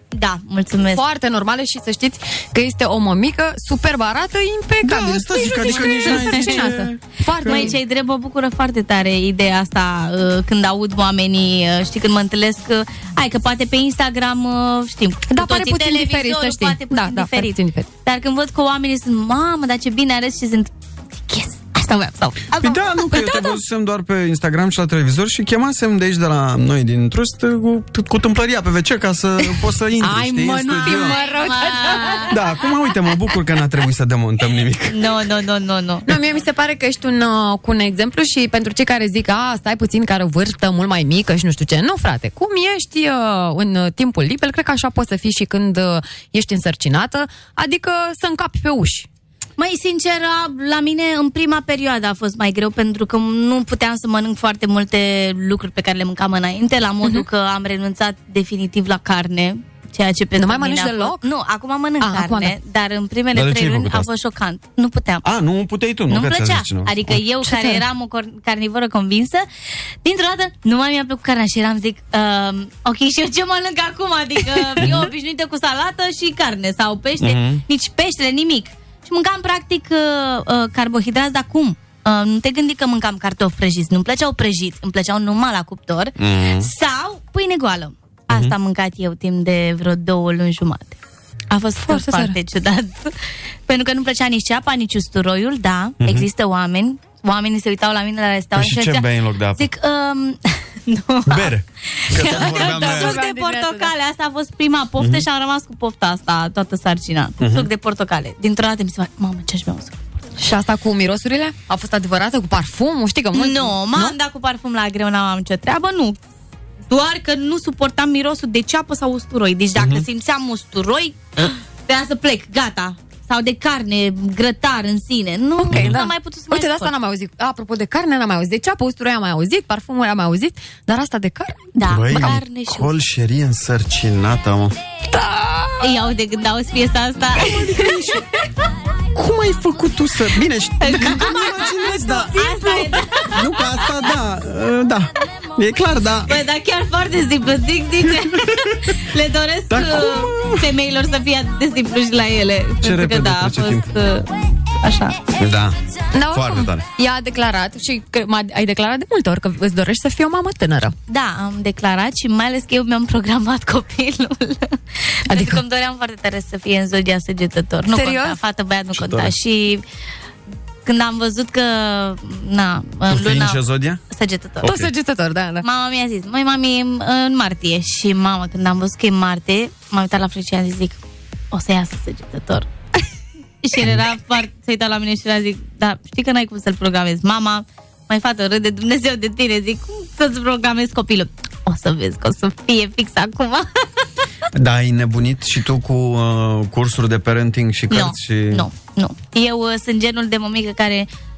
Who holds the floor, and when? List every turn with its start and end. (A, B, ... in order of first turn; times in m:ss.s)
0:00.1-0:01.0 A
0:00.9-0:07.8 B
0:04.8-0:07.8 C
0:05.8-0:06.8 A
0:07.4-0:23.3 A
0:15.3-0:17.9 B
0:22.6-0:31.2 C
0:23.2-0:23.4 B
0:30.0-0:32.3 B
0:30.7-0:32.6 A
0:32.2-0:35.3 C
0:34.9-0:36.1 A
0:36.0-0:49.1 B
0:49.6-1:05.2 A
1:00.4-1:01.2 B
1:02.0-1:02.6 B
1:03.3-1:04.1 C
1:05.2-1:07.2 C
1:06.1-1:09.4 A
1:07.4-1:07.8 B
1:10.0-1:31.0 A
1:14.8-1:15.1 C
1:17.2-1:17.6 C
1:26.2-1:26.7 C
1:31.5-1:33.1 A
1:31.8-1:32.4 B
1:33.7-1:50.0 A
1:36.0-1:36.3 C
1:38.5-1:39.7 C
1:41.2-1:43.2 C
1:42.2-1:43.9 B
1:45.0-1:45.2 C
1:47.4-1:47.7 C
1:50.4-1:54.2 B
1:53.3-1:56.2 A
1:56.9-2:06.9 A
1:59.8-2:00.0 C
2:05.6-2:12.4 B
2:05.7-2:06.0 C
2:11.8-2:12.9 A
2:11.8-2:14.8 C
2:15.1-2:16.0 B
2:15.8-2:17.9 A
2:17.4-2:18.3 C
2:19.1-2:22.7 C
2:20.8-2:21.8 A
2:21.0-2:23.8 B
2:22.3-2:23.7 A
2:23.3-2:26.4 C
2:26.3-2:34.2 A
2:28.0-2:29.0 C
2:29.7-2:30.7 C
2:32.8-2:33.9 C
2:34.8-2:35.2 A
2:35.4-2:35.8 C
2:36.1-2:40.9 B
2:36.3-2:36.8 C
2:41.1-2:44.8 A
2:45.3-2:45.6 B
2:45.3-2:49.8 A
2:47.9-2:48.4 B
2:48.9-2:49.3 C
2:50.8-2:54.7 A
2:53.1-2:54.0 C
2:54.6-2:54.9 C
2:54.6-2:55.6 B
2:55.6-3:01.0 A
3:01.5-3:02.7 A
3:03.6-3:13.7 A
3:03.8-3:04.0 C
3:14.5-3:18.6 C
3:17.9-3:21.1 A